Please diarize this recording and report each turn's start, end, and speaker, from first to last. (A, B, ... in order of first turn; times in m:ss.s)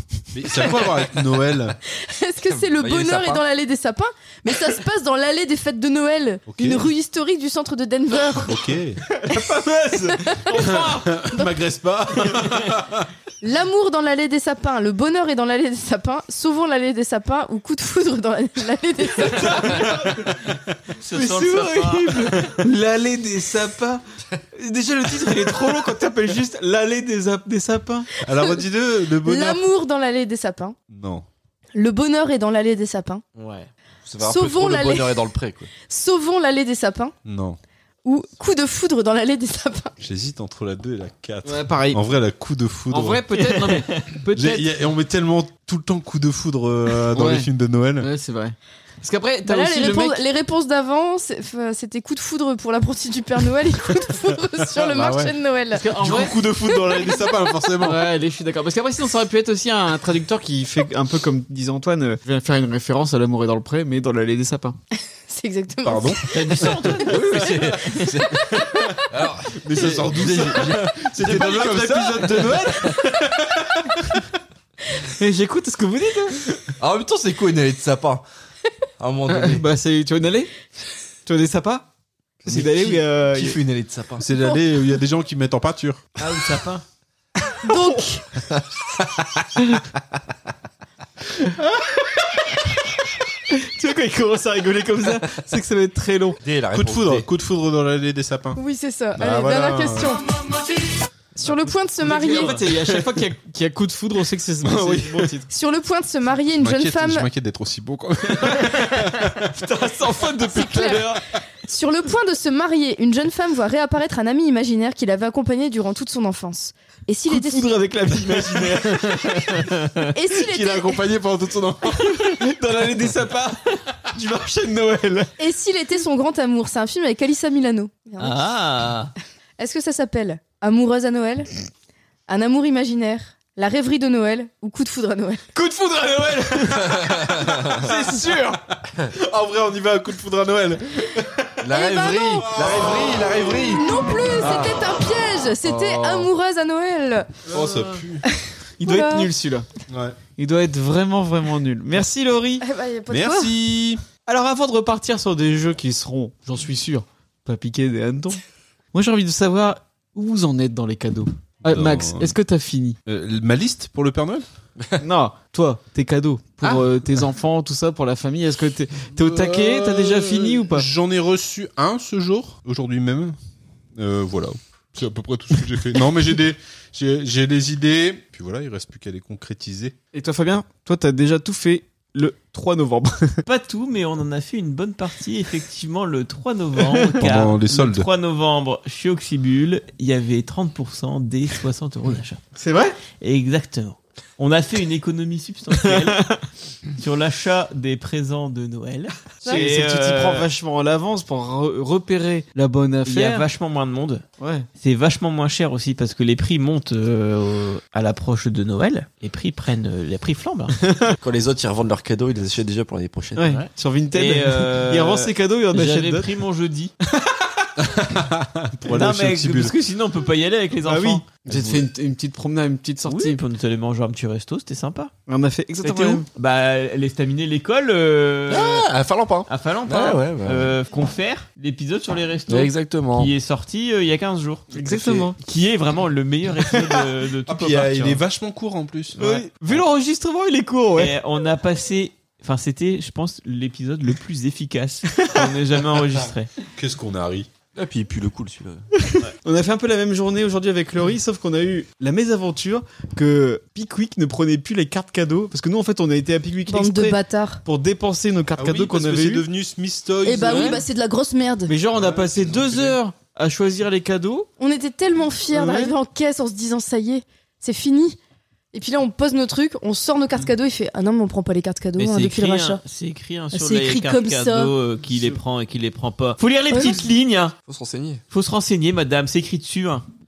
0:00.3-0:01.8 A
0:01.9-0:08.6 B
0:02.5-0:03.4 C
0:06.5-0:06.8 A
0:08.4-0:09.0 A
0:09.1-0:11.2 D
0:10.1-0:10.7 B
0:10.6-0:13.1 A
0:13.4-0:19.8 B
0:19.2-0:20.4 D
0:21.0-0:22.5 E
0:21.1-0:24.0 D
0:24.6-0:28.1 D
0:28.2-0:29.6 A
0:29.2-0:30.8 B
0:30.9-0:31.2 A
0:31.7-0:33.2 B
0:33.4-0:33.7 E
0:34.0-0:35.7 C
0:34.2-0:35.2 B
0:35.9-0:37.1 B
0:37.2-0:37.6 A
0:38.0-0:39.9 B
0:40.0-0:43.2 A
0:41.4-0:42.0 D
0:42.9-0:44.7 D
0:43.4-0:44.1 E
0:44.3-0:48.1 A
0:47.1-0:47.5 D
0:48.0-0:50.2 D
0:49.4-0:55.8 B
0:54.7-0:55.3 A
0:55.8-0:56.4 D
0:56.0-0:58.1 A
0:56.7-0:57.1 B
0:57.8-1:04.8 D
1:05.3-1:06.2 B
1:05.8-1:06.8 A
1:06.3-1:07.5 E
1:07.0-1:08.6 C
1:09.1-1:12.9 C
1:09.6-1:14.2 A
1:15.1-1:16.4 D
1:16.8-1:18.2 C
1:19.0-1:19.6 C
1:19.4-1:20.6 D
1:21.2-1:21.9 D
1:22.4-1:23.6 D
1:22.4-1:24.2 C
1:24.2-1:26.0 A
1:26.2-1:26.8 E
1:27.6-1:28.2 B
1:31.6-1:31.9 D
1:33.5-1:36.4 D
1:36.4-1:37.3 C
1:36.7-1:38.6 A
1:38.6-1:40.3 B
1:39.2-1:40.2 A
1:41.4-1:42.6 B
1:42.0-1:45.5 D
1:44.6-1:45.2 A
1:45.5-1:47.3 B
1:46.6-1:49.5 A
1:49.5-1:51.2 D
1:50.5-1:51.1 B
1:51.7-1:57.7 B
1:57.3-1:59.7 D
2:00.1-2:01.0 B
2:00.4-2:02.4 A
2:02.0-2:05.3 D
2:05.4-2:08.4 B
2:08.2-2:09.1 E
2:09.6-2:11.5 B
2:12.3-2:15.4 B
2:15.5-2:18.6 D
2:17.1-2:17.6 C
2:17.8-2:18.2 A
2:19.1-2:21.5 A
2:21.6-2:23.8 C
2:21.7-2:22.5 B
2:22.5-2:23.4 A
2:23.6-2:27.3 B
2:24.4-2:24.8 C
2:25.6-2:26.3 C
2:27.5-2:28.2 A
2:27.5-2:27.8 D
2:28.8-2:29.6 D
2:28.8-2:29.3 B
2:29.9-2:30.2 A
2:30.4-2:32.6 D
2:32.6-2:33.5 B
2:33.1-2:34.0 A
2:34.2-2:38.4 D
2:38.9-2:43.0 D
2:41.7-2:42.3 A
2:43.0-2:44.4 A
2:45.0-2:50.9 D
2:49.1-2:53.4 A
2:53.9-2:59.9 A
3:00.1-3:03.4 D
3:03.4-3:12.4 E
3:07.2-3:08.1 A
3:12.6-3:13.0 D
3:13.2-3:16.2 E
3:15.8-3:16.4 D
3:17.0-3:20.5 E
3:19.4-3:23.4 D
3:23.0-3:24.2 E
3:24.4-3:24.7 D
3:24.8-3:30.8 E
3:31.2-3:33.6 C
3:33.4-3:36.3 D
3:34.1-3:36.9 E
3:37.1-3:37.4 D
3:37.8-3:39.7 A
3:38.9-3:41.2 E
3:40.8-3:43.4 D
3:41.5-3:41.8 C
3:43.0-3:45.1 E
3:45.3-3:46.2 D
3:45.8-3:48.9 E
3:48.5-3:50.7 C
3:49.5-3:58.2 E
3:52.5-3:53.3 C
3:54.7-3:55.4 D
3:57.5-3:59.2 A
3:59.2-4:01.1 D
4:00.9-4:06.5 E
4:06.8-4:07.5 A
4:07.7-4:08.9 C
4:09.4-4:19.4 D
4:16.7-4:17.6 B
4:18.6-4:20.8 A
4:20.2-4:21.7 B
4:20.4-4:20.8 D
4:21.7-4:24.5 D
4:21.9-4:23.0 A
4:24.6-4:28.2 B
4:25.5-4:25.9 D
4:28.7-4:32.8 B
4:32.0-4:37.5 E
4:33.5-4:34.7 B
4:36.7-4:37.0 B
4:37.7-4:38.2 C
4:38.3-4:40.0 E